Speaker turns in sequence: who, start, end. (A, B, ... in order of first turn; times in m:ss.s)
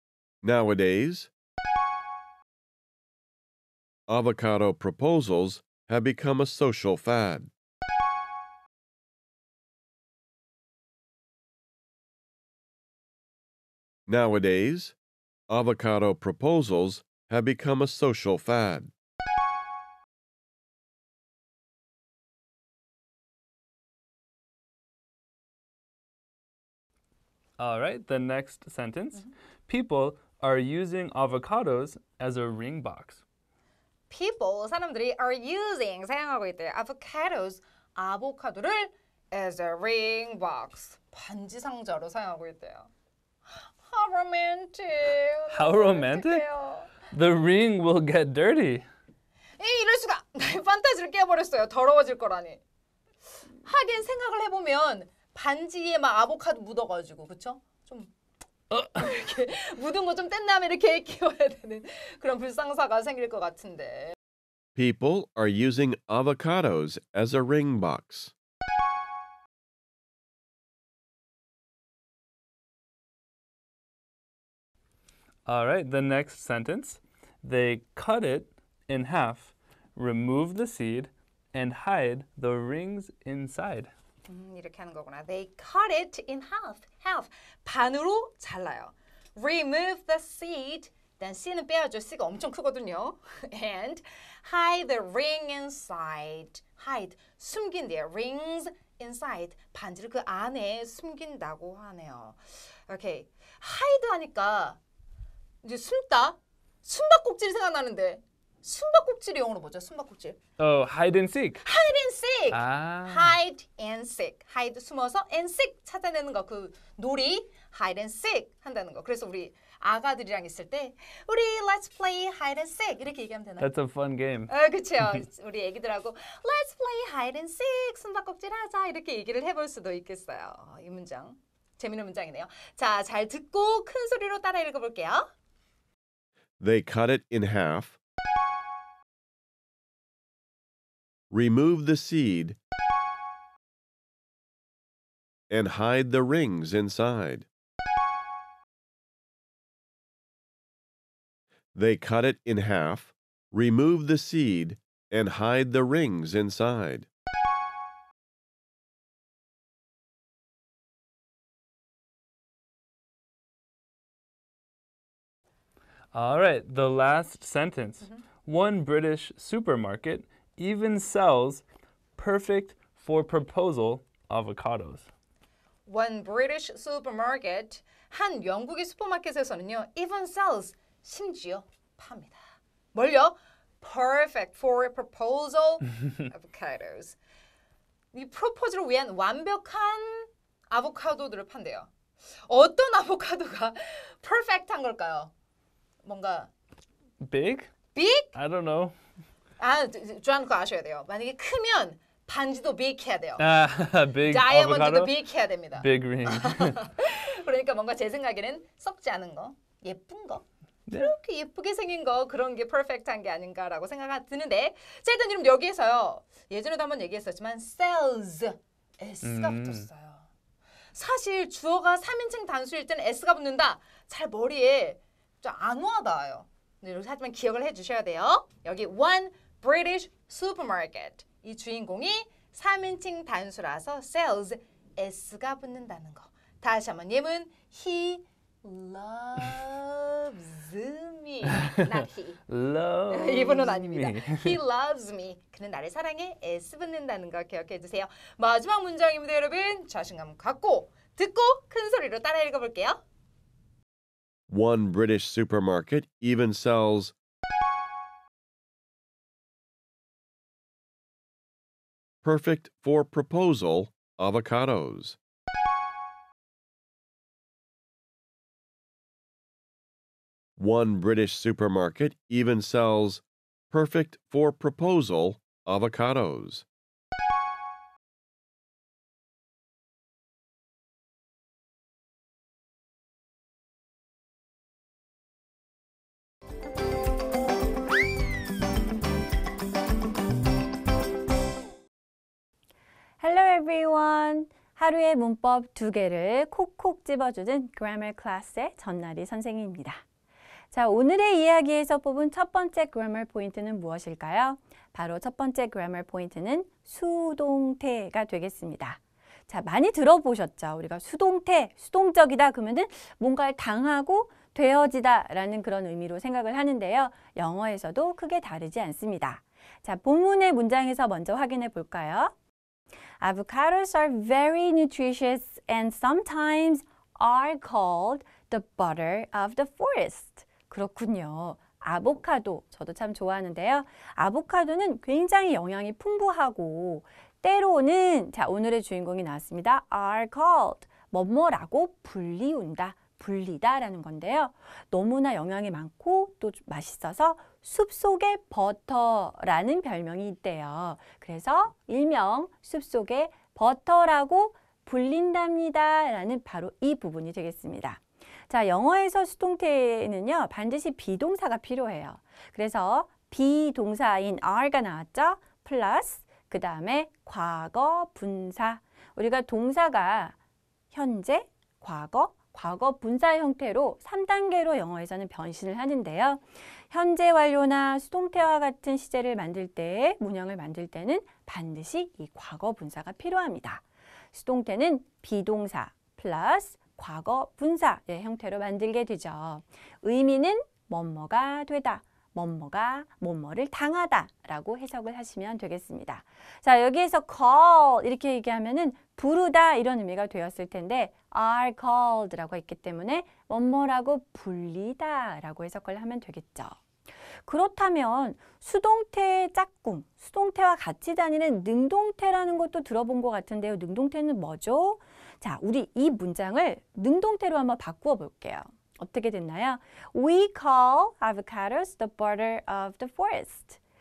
0:00.4-0:01.3 A
0:04.1-0:07.5 A
0:14.1-0:15.0 A
0:15.5-0:18.9 A
0:27.6-0:33.2 B
0:34.1-0:42.9 C
0:43.5-0:46.9 C
0:45.5-0:46.4 B
0:47.0-0:48.8 B
0:49.6-0:52.6 C
0:53.6-0:58.1 C
0:58.7-0:59.0 B
0:58.9-1:04.1 C
1:04.8-1:08.3 A
1:15.4-1:23.9 B
1:24.3-1:44.8 C
1:45.6-1:50.4 C
1:50.6-1:51.6 B
1:51.6-2:03.7 C
1:52.5-1:53.4 B
2:03.6-2:04.5 B
2:04.5-2:15.3 C
2:16.6-2:18.0 A
2:21.3-2:22.6 A
2:25.5-2:27.5 A
2:31.7-2:37.1 A
2:46.1-2:51.6 B
2:52.2-2:55.1 B
2:55.8-3:02.4 C
3:02.9-3:07.2 C
3:08.1-3:11.9 C
3:12.5-3:15.3 C
3:16.0-3:16.5 C
3:17.2-3:17.7 B
3:17.9-3:18.3 C
3:18.3-3:18.9 B
3:19.6-3:23.4 C
3:23.4-3:25.2 B
3:24.2-3:30.4 C
3:25.8-3:26.8 B
3:30.9-3:31.1 B
3:31.0-3:40.3 C
3:39.2-3:39.9 B
3:40.9-4:02.4 C
4:01.5-4:01.9 B
4:02.5-4:04.6 B
4:03.1-4:13.0 C
4:14.5-4:17.1 A
4:22.2-4:25.2 A
4:30.6-4:36.6 A
4:53.2-5:00.0 D
5:00.7-5:22.3 D
5:23.2-6:10.3 D
6:10.9-6:46.8 D
6:47.4-7:03.8 D